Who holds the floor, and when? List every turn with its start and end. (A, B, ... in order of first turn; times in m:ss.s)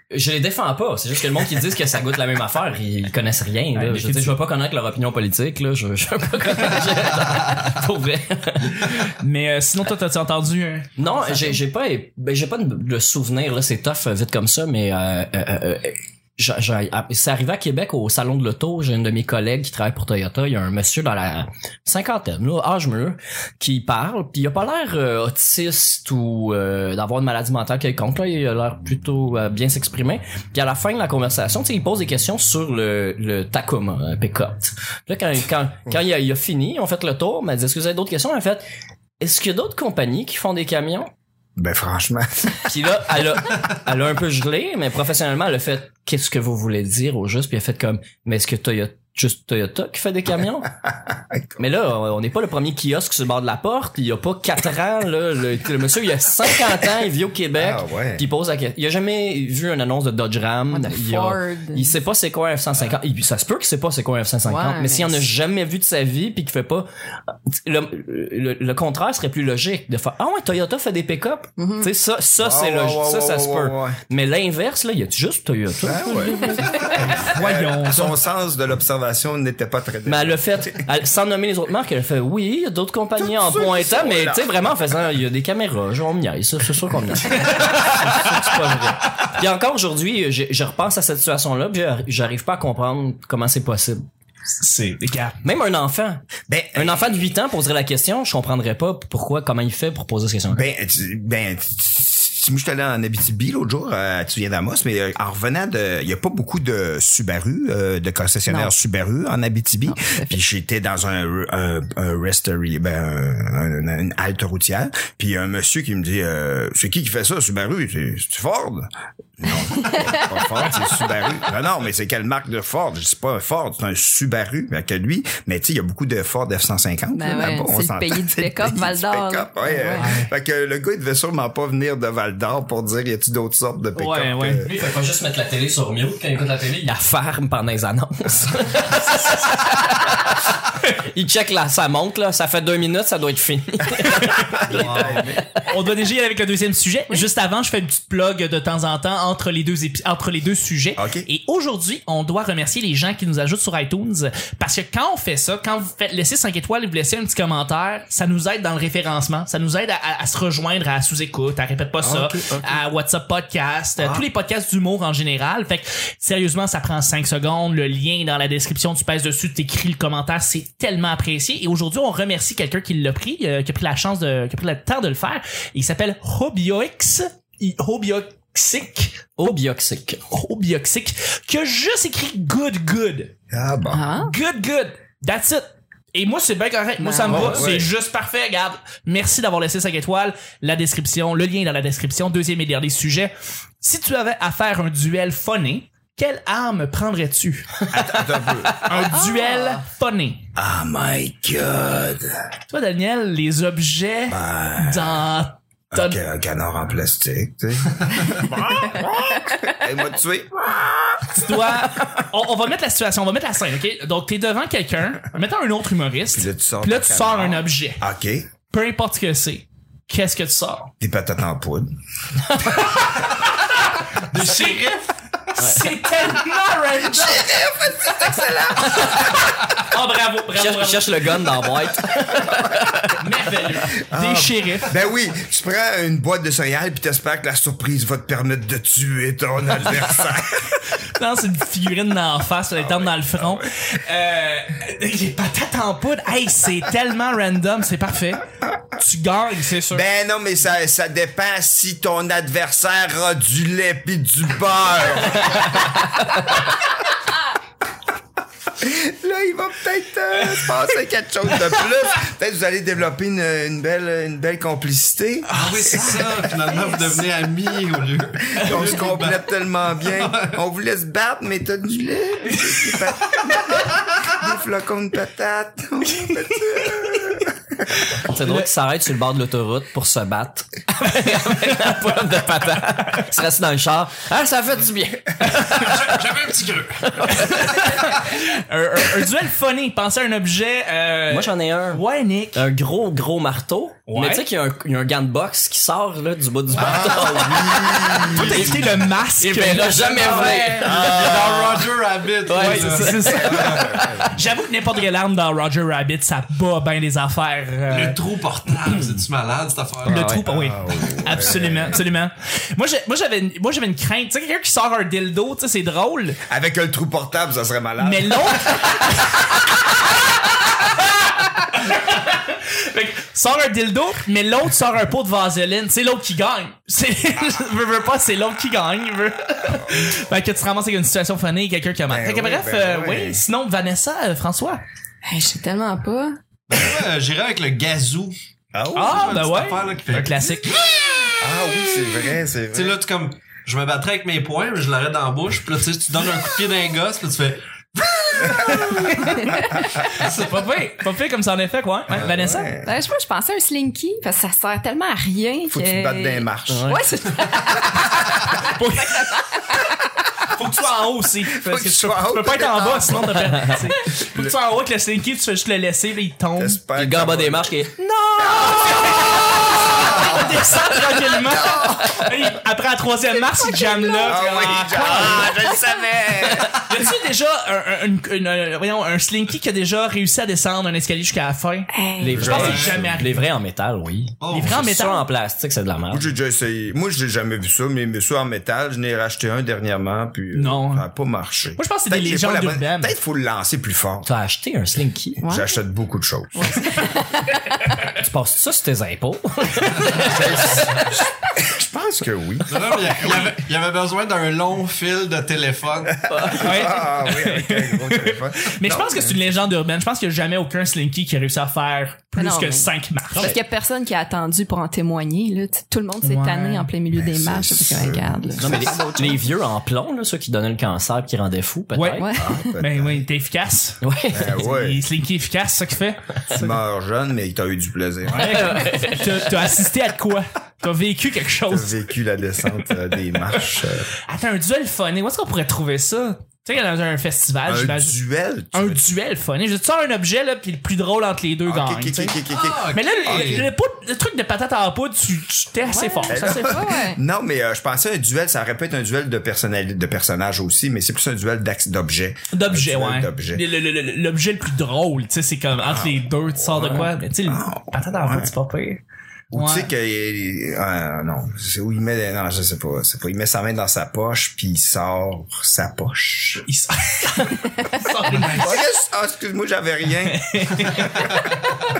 0:00.1-0:09.1 A
0:03.7-0:04.4 B
0:09.0-0:11.6 B
0:11.0-0:38.6 A
0:39.2-0:41.1 A
0:41.6-0:42.7 C
0:42.6-0:50.7 A
0:51.0-0:51.6 C
0:51.6-1:06.9 A
0:57.5-0:58.2 C
1:00.7-1:01.9 D
1:04.4-1:05.3 D
1:07.5-1:17.0 A
1:11.6-1:11.9 D
1:12.4-1:14.0 C
1:15.8-1:20.8 C
1:17.0-1:18.2 B
1:20.0-1:34.0 A
1:23.2-1:24.6 C
1:27.3-1:28.0 B
1:34.6-1:35.4 B
1:35.4-1:40.6 A
1:36.5-1:37.0 C
1:40.5-2:14.7 C
1:48.5-1:48.7 D
1:49.9-1:50.4 D
1:59.7-2:00.5 D
2:07.1-2:10.1 D
2:10.0-2:10.3 B
2:14.0-2:14.6 B
2:14.6-2:25.6 A
2:24.4-2:25.4 C
2:24.7-2:25.2 E
2:25.6-2:59.6 B
2:31.0-2:31.3 C
2:42.0-2:42.8 C
2:44.0-2:44.2 C
2:59.4-3:00.2 A
3:00.3-3:03.3 B
3:03.5-3:04.1 C
3:03.9-3:04.3 D
3:04.2-3:20.5 B
3:07.0-3:07.7 D
3:07.3-3:07.6 A
3:07.3-3:07.9 C
3:17.9-3:18.9 C
3:19.1-3:19.8 D
3:20.5-3:22.4 C
3:22.7-3:26.2 B
3:24.3-3:25.2 C
3:25.9-3:31.5 C
3:31.3-3:38.0 B
3:36.3-3:38.5 C
3:38.7-3:40.9 B
3:41.0-3:42.0 C
3:44.3-3:44.9 B
3:44.3-3:45.1 E
3:45.5-3:47.5 B
3:46.9-3:49.5 C
3:48.9-3:51.3 B
3:50.5-3:53.1 A
3:53.1-3:55.0 B
3:53.9-4:00.8 C
4:00.9-4:10.0 B
4:02.8-4:03.7 C
4:09.9-4:15.9 C
4:18.7-4:26.2 C
4:25.5-4:27.2 B
4:25.5-4:29.5 E
4:28.6-4:37.5 C
4:28.6-4:28.9 B
4:30.0-4:30.5 E
4:36.1-4:37.5 B
4:38.2-4:47.9 A
4:38.2-4:38.6 B
4:41.0-4:42.0 B
4:45.6-4:47.3 E
4:47.2-4:52.6 B
4:51.3-4:52.0 A
4:52.5-4:58.9 A
4:54.1-4:54.4 B
4:56.7-4:58.8 C
4:58.3-5:00.8 B
4:59.4-5:01.8 A
5:00.0-5:04.0 E
5:00.8-5:01.8 C
5:02.4-5:03.8 A
5:02.5-5:08.2 B
5:03.2-5:04.4 C
5:07.9-5:10.3 E
5:10.0-5:12.0 C
5:10.0-5:16.4 B
5:16.4-5:18.8 C
5:18.0-5:34.8 B
5:32.1-5:33.4 C
5:35.2-5:36.4 D
5:36.7-5:38.3 E
5:38.7-5:39.4 C
5:38.9-5:40.8 B
5:39.0-5:40.5 E
5:41.4-5:43.0 C
5:42.7-5:49.5 E
5:48.5-5:49.1 C
5:48.6-5:52.7 B
5:50.1-5:50.8 E
5:52.1-5:52.9 C
5:52.8-5:59.9 D
5:55.7-5:57.0 C
5:56.7-5:57.1 A
5:58.6-5:59.3 B
6:00.5-6:06.8 B
6:01.5-6:04.5 C
6:06.6-6:07.8 C
6:07.0-6:08.0 A
6:08.4-6:15.6 B
6:08.4-6:12.5 C
6:08.6-6:09.2 A
6:14.2-6:16.7 C
6:16.7-6:23.4 B
6:21.9-6:22.6 D
6:22.2-6:26.3 A
6:22.3-6:23.2 C
6:22.5-6:23.0 E
6:24.4-6:24.8 E
6:24.5-6:25.2 B
6:26.1-6:34.3 C
6:30.5-6:31.0 B
6:31.7-6:33.1 B
6:34.2-6:35.4 A
6:35.4-6:35.7 D
6:35.4-6:36.9 C
6:36.6-6:37.5 D
6:38.1-6:41.1 A
6:40.2-6:43.4 C
6:42.7-6:46.3 E
6:46.3-6:49.5 C
6:46.4-6:46.8 A
6:46.5-6:53.5 B
6:52.4-6:59.4 D
6:56.2-6:56.9 B
6:57.1-6:59.0 C
6:58.6-7:02.3 A
7:01.9-7:02.3 B
7:02.2-7:02.7 D
7:02.3-7:03.2 C
7:02.8-7:06.7 B
7:04.0-7:04.6 A
7:04.3-7:05.0 C
7:06.5-7:08.8 C
7:08.3-7:12.0 B
7:08.4-7:09.8 A
7:11.7-7:14.1 C
7:14.3-7:18.2 B
7:17.6-7:19.0 C
7:18.7-7:22.4 B
7:21.6-7:23.7 C
7:22.5-7:23.7 E
7:22.9-7:26.8 B
7:25.8-7:27.2 D
7:26.3-7:33.6 C
7:32.5-7:39.0 B
7:35.8-7:38.5 C
7:39.5-7:46.7 C
7:39.5-7:39.9 B
7:46.6-7:48.8 B
7:48.2-7:51.5 C
7:50.2-7:51.7 B